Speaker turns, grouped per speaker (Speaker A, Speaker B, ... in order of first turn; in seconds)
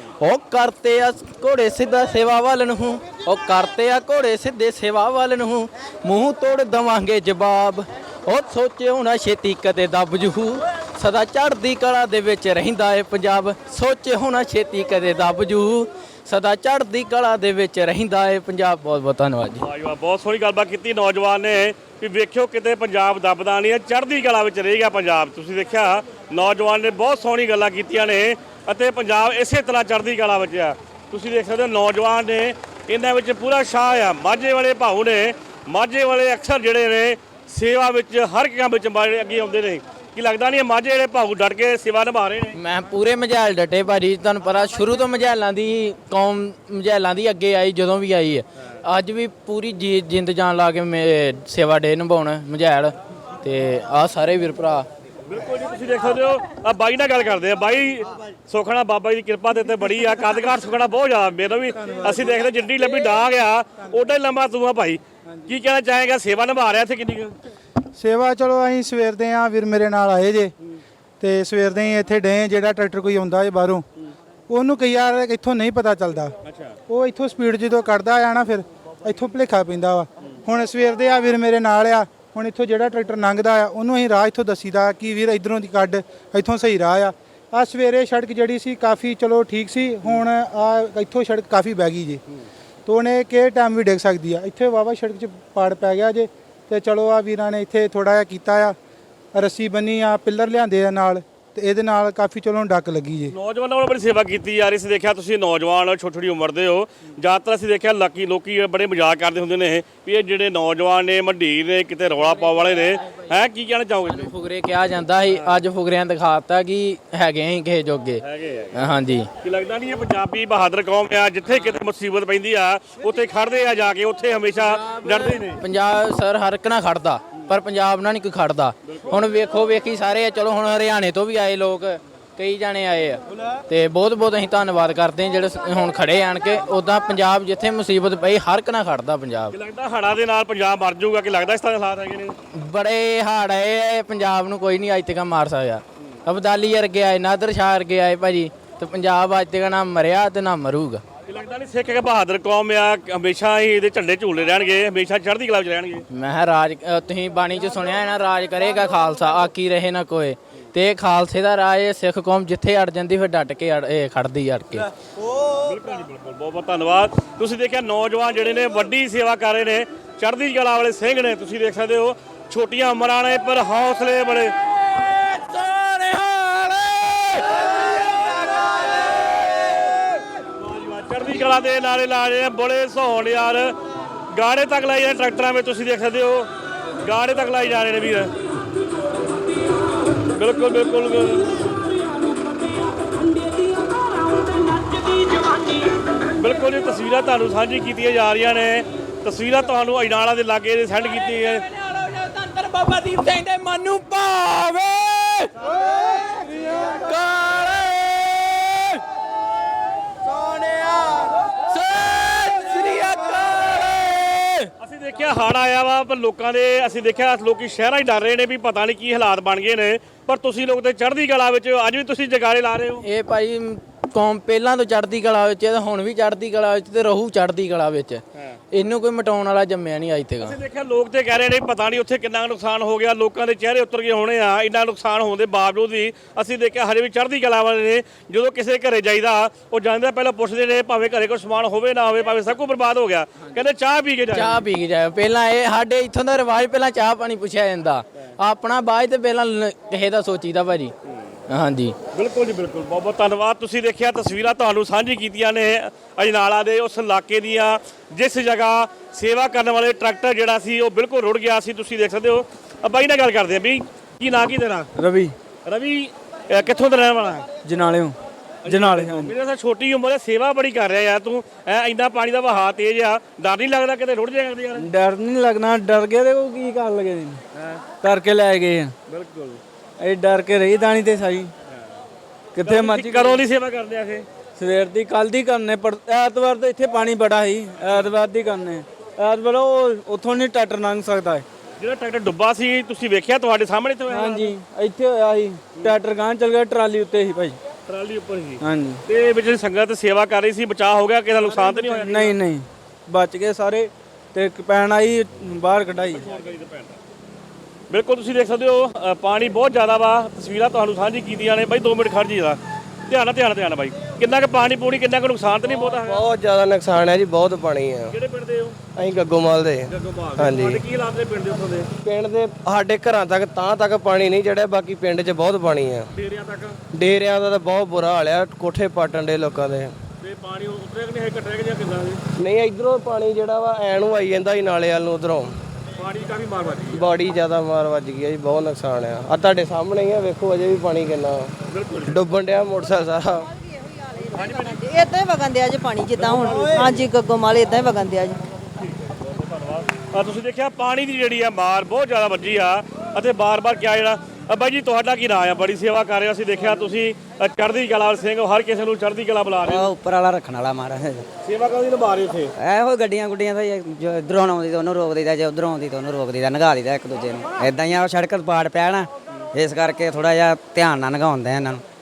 Speaker A: 0.2-19.6, 42.5-54.9, 114.1-119.3, 124.7-139.5, 142.6-151.0, 156.1-164.9, 175.0-177.3, 193.1-195.8, 201.7-209.0, 210.2-214.7, 223.0-230.6, 244.3-250.9, 251.5-251.9
Speaker B: 19.6-42.6, 55.3-67.3, 76.5-76.8, 103.3-114.3, 115.3-115.6, 118.2-118.8, 119.4-125.6, 139.5-142.3, 151.3-156.1, 165.4-174.5, 180.6-183.8, 184.3-188.3, 190.3-191.8, 196.4-201.7, 214.8-223.1, 230.4-244.6, 252.1-264.9, 265.6-267.5, 268.6-274.9, 279.1-279.6, 282.6-284.3, 291.8-294.6, 297.9-302.4, 306.0-307.0, 307.9-316.3, 318.1-318.8, 319.9-321.9, 326.1-326.8, 330.2-332.2, 336.0-337.1, 341.7-342.2, 344.3-344.8, 349.0-359.9, 361.4-362.5
Speaker C: 68.0-70.5, 71.2-73.8, 74.5-76.3, 76.9-92.2, 92.9-98.8, 99.3-103.3
Speaker D: 265.0-265.3, 267.6-268.1, 268.7-269.3, 274.8-277.4, 278.0-278.9, 280.0-281.5, 282.6-283.4, 284.6-291.4, 294.1-297.6, 298.6-299.0, 301.6-306.3
Speaker E: 315.8-318.1, 319.0-320.8, 322.0-326.1, 326.9-329.9, 332.4-335.5, 336.9-341.5, 342.1-343.5
Speaker F: 344.7-348.4
Speaker G: 359.6-361.2, 362.6-371.8